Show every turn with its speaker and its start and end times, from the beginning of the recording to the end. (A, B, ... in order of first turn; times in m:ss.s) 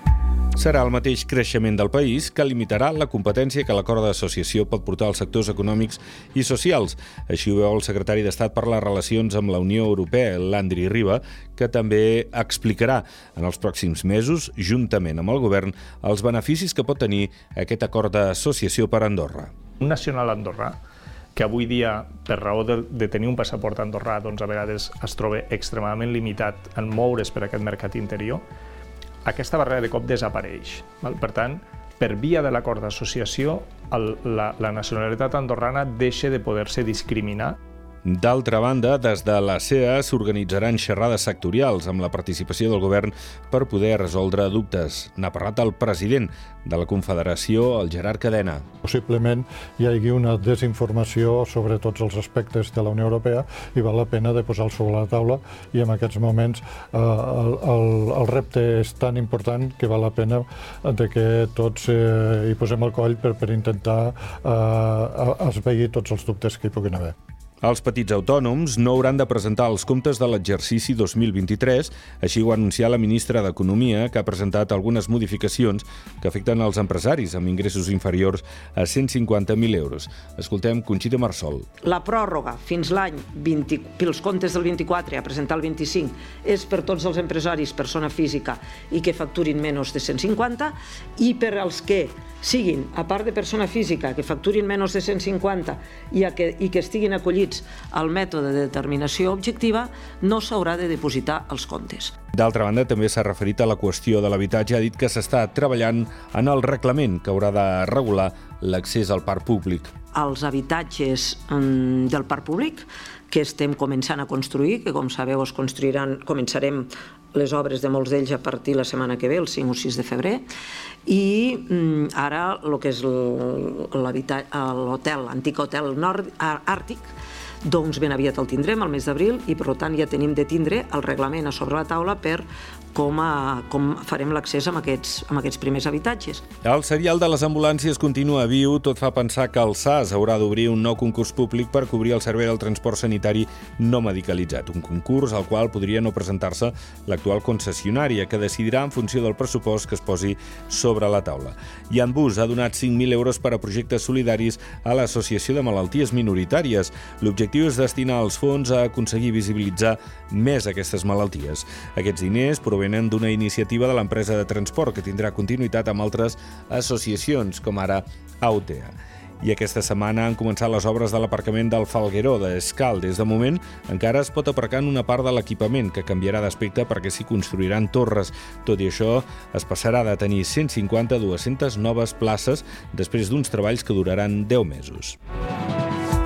0:00.6-0:19.5 A
0:19.8-0:20.8 B
0:21.4-0:28.4 B
0:29.2-0:37.6 B
0:38.0-0:48.6 A
0:48.8-1:07.1 C
1:07.6-1:21.7 A
1:21.8-1:42.2 D
1:42.4-1:49.9 A
1:50.1-2:00.4 D
2:01.1-2:07.1 D
2:07.6-2:16.4 D
2:16.6-3:05.2 A